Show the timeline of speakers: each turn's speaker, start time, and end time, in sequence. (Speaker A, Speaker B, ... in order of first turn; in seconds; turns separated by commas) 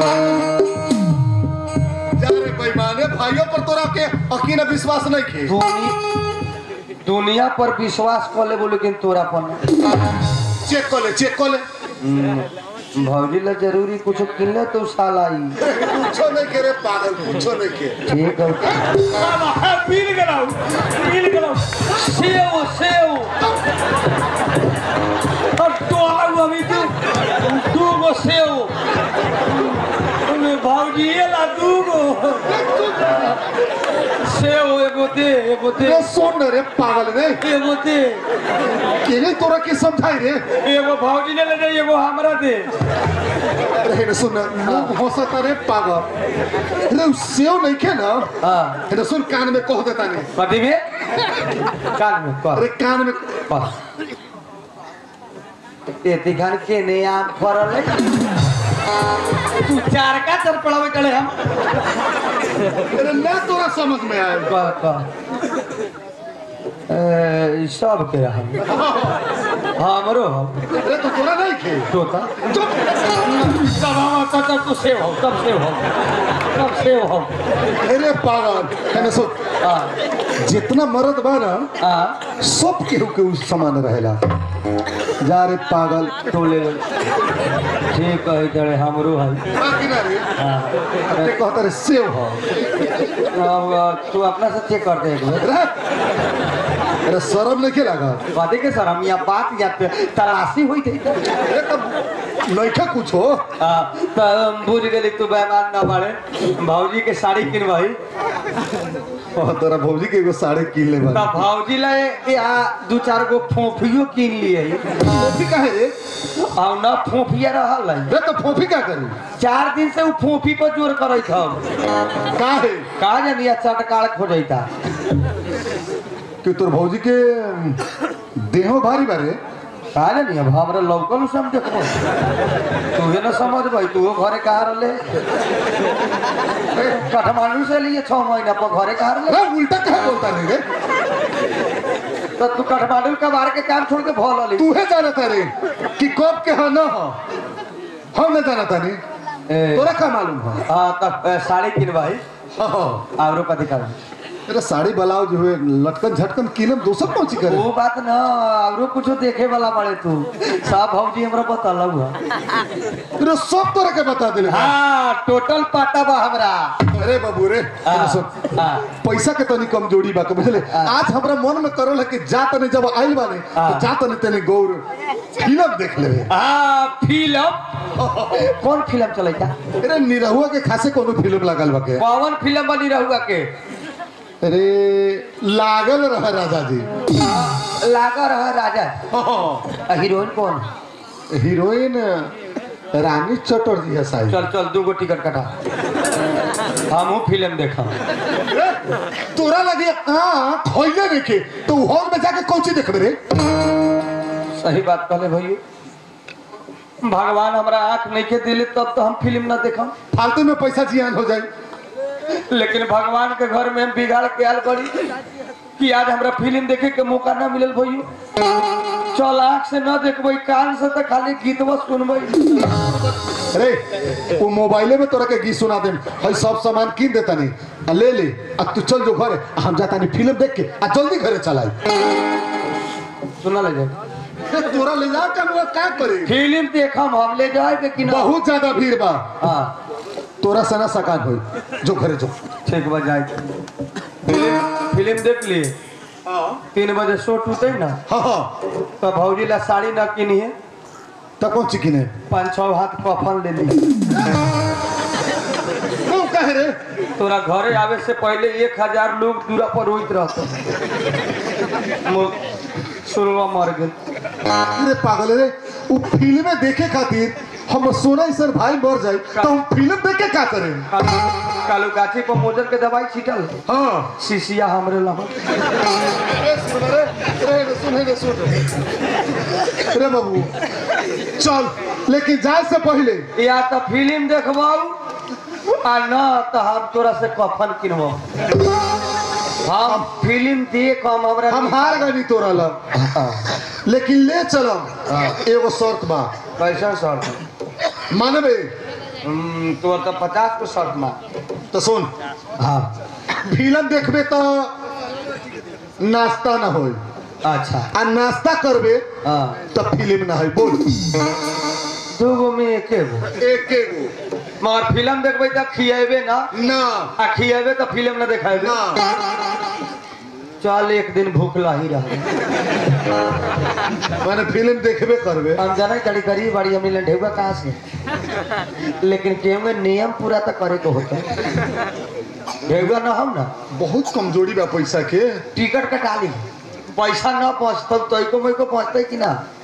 Speaker A: 2.1-5.6, Speaker B: 5.5-6.0, Speaker B: 7.0-9.6, Speaker A: 10.6-11.6, Speaker B: 12.0-15.6, Speaker A: 15.6-18.0, Speaker B: 18.1-23.4, Speaker B: 25.4-28.7, Speaker B: 29.5-33.4, Speaker A: 32.5-33.2, Speaker B: 34.2-36.1, Speaker A: 35.8-37.4, Speaker B: 37.4-38.2, Speaker A: 39.0-40.5, Speaker B: 40.5-42.7, Speaker A: 43.8-46.1, Speaker B: 44.6-44.9, Speaker A: 46.8-48.3, Speaker B: 48.4-48.8, Speaker A: 48.9-50.3, Speaker B: 50.4-50.8, Speaker B: 51.9-52.7, Speaker A: 52.5-53.4, Speaker B: 56.0-58.0, Speaker B: 59.6-61.4, Speaker A: 62.9-64.5, Speaker B: 64.5-65.1, Speaker B: 66.9-68.7, Speaker A: 68.7-69.2, Speaker B: 69.8-70.6, Speaker A: 70.8-71.9, Speaker B: 71.9-72.3, Speaker A: 72.4-72.9, Speaker B: 73.3-75.9, Speaker B: 76.5-77.3, Speaker A: 77.8-79.4, Speaker B: 79.6-79.9, Speaker A: 80.4-81.7, Speaker B: 81.8-82.2, Speaker A: 82.4-84.2, Speaker A: 85.2-86.2, Speaker B: 86.3-86.8, Speaker B: 87.9-89.5, Speaker A: 89.5-90.3, Speaker B: 90.4-91.3, Speaker A: 91.1-92.4, Speaker B: 93.3-95.5, Speaker A: 95.4-95.7, Speaker A: 97.1-98.2, Speaker B: 98.3-101.3, Speaker A: 101.5-103.4, Speaker B: 103.6-108.0, Speaker A: 109.3-111.5, Speaker B: 111.1-114.8, Speaker A: 115.0-116.0, Speaker B: 116.4-118.1, Speaker A: 118.1-119.2, Speaker B: 119.4-121.6, Speaker A: 122.3-122.9, Speaker B: 123.0-124.7, Speaker A: 126.4-127.8, Speaker A: 128.3-129.4, Speaker B: 129.9-132.0, Speaker B: 132.9-135.2, Speaker B: 136.8-139.4, Speaker A: 139.3-140.6, Speaker B: 142.4-144.7, Speaker A: 144.6-147.2, Speaker A: 148.1-149.0, Speaker B: 149.5-149.9, Speaker A: 149.7-150.6, Speaker B: 150.7-152.2, Speaker A: 152.6-153.0, Speaker B: 153.2-154.0, Speaker A: 154.5-157.7, Speaker B: 157.5-162.2, Speaker A: 163.2-164.8, Speaker B: 164.4-166.8, Speaker A: 166.9-176.3, Speaker B: 167.8-168.9, Speaker B: 170.7-170.9, Speaker B: 173.6-173.9, Speaker B: 176.3-179.6, Speaker A: 177.9-178.5, Speaker A: 179.8-182.1, Speaker B: 182.0-183.5, Speaker A: 184.4-186.9, Speaker B: 187.2-189.0, Speaker A: 189.1-189.7, Speaker B: 189.8-190.7, Speaker A: 191.3-192.3, Speaker A: 192.9-194.4, Speaker B: 194.3-195.5, Speaker B: 196.9-198.0, Speaker A: 198.4-198.8, Speaker A: 199.3-203.2, Speaker B: 204.6-205.6, Speaker B: 207.0-209.9, Speaker A: 210.1-211.5, Speaker B: 212.5-215.0, Speaker B: 215.8-218.1, Speaker B: 219.1-222.9, Speaker A: 223.5-231.8, Speaker B: 233.4-233.9, Speaker A: 234.5-236.4, Speaker B: 236.2-238.3, Speaker A: 238.1-239.4, Speaker B: 239.4-239.7, Speaker A: 240.4-242.4, Speaker B: 242.7-243.4, Speaker B: 244.2-245.8, Speaker A: 246.3-246.6, Speaker B: 246.7-248.0, Speaker A: 248.1-248.5, Speaker B: 249.0-250.5, Speaker A: 251.4-252.1, Speaker B: 252.3-253.8, Speaker A: 256.1-256.8, Speaker B: 257.2-260.5, Speaker B: 262.1-262.4, Speaker B: 263.0-264.0, Speaker A: 264.5-270.9, Speaker B: 270.9-273.6, Speaker A: 273.7-274.1, Speaker B: 274.2-275.4, Speaker A: 276.2-278.8, Speaker A: 279.8-280.6, Speaker A: 281.4-283.3, Speaker B: 283.4-285.0, Speaker B: 285.7-288.3, Speaker B: 289.6-292.1, Speaker A: 291.5-292.8, Speaker B: 292.9-293.4, Speaker A: 293.9-296.4, Speaker B: 295.1-295.4, Speaker B: 296.6-297.4, Speaker A: 298.1-298.7, Speaker B: 299.2-301.2, Speaker A: 301.7-302.1, Speaker B: 302.6-302.9, Speaker A: 303.3-304.7, Speaker A: 306.0-307.0, Speaker B: 307.4-307.9, Speaker A: 307.9-309.1, Speaker B: 309.2-309.6, Speaker A: 309.7-311.1, Speaker B: 312.1-313.3, Speaker A: 313.4-314.1, Speaker B: 314.6-316.5, Speaker A: 316.5-317.1, Speaker B: 317.2-318.8, Speaker A: 318.6-319.2, Speaker B: 320.6-322.3, Speaker A: 324.2-325.6, Speaker B: 325.6-327.8, Speaker B: 329.0-331.3, Speaker B: 332.7-333.5, Speaker A: 333.7-335.4, Speaker B: 335.6-339.4